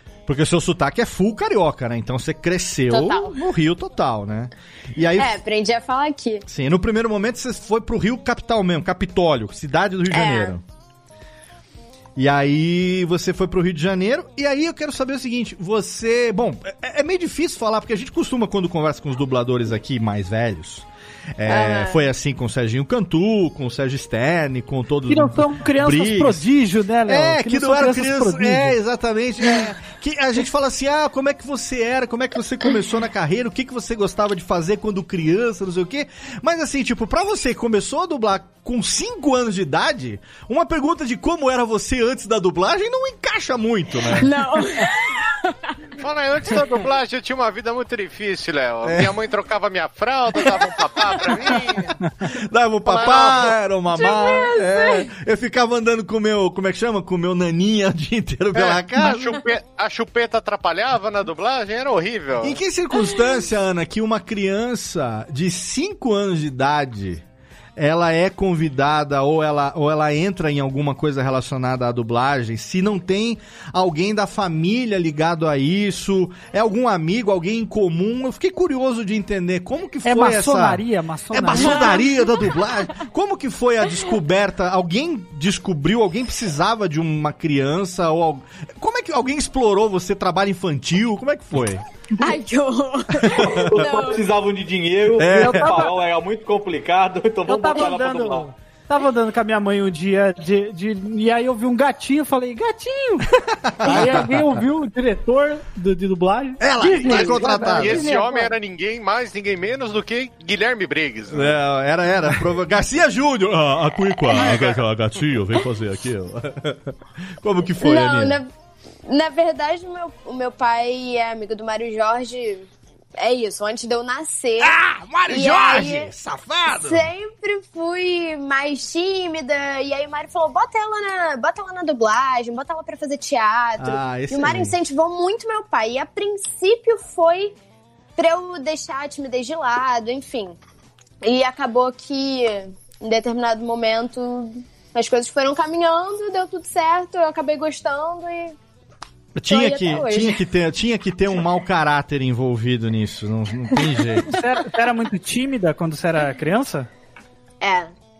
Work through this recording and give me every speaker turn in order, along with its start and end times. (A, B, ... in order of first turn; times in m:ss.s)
0:00.2-0:05.4 A
0:02.9-0:03.4 B
0:05.2-0:06.4 B
0:06.4-0:10.6 A
0:10.1-0:10.6 B
0:12.2-0:20.8 A
0:21.4-0:26.4 A
0:21.4-0:22.0 B
0:25.1-0:28.7 C
0:27.1-0:44.3 A
0:44.2-0:45.6 B
0:46.0-0:51.9 D
0:48.8-0:49.1 A
0:51.3-0:51.8 B
0:52.3-0:59.3 A
0:52.8-0:53.5 D
0:53.9-0:55.1 B
0:58.5-1:02.6 D
1:02.4-1:07.2 A
1:07.8-1:31.8 A
1:20.0-1:22.0 C
1:21.6-1:22.6 B
1:32.2-1:34.2 B
1:33.2-1:33.8 A
1:33.4-1:38.5 E
1:35.2-1:35.9 A
1:35.3-1:35.9 C
1:37.4-1:43.3 C
1:43.4-1:44.4 A
1:43.8-1:48.4 C
1:46.6-1:48.1 A
1:47.0-1:51.6 D
1:51.3-1:58.4 A
1:57.8-1:58.5 B
1:59.0-2:04.8 B
2:04.6-2:07.1 A
2:05.3-2:06.1 B
2:06.7-2:17.6 B
2:13.8-2:14.7 A
2:18.2-2:20.6 B
2:21.2-2:28.5 B
2:29.4-2:34.3 A
2:29.5-2:30.4 B
2:34.2-2:36.9 C
2:37.6-2:37.9 B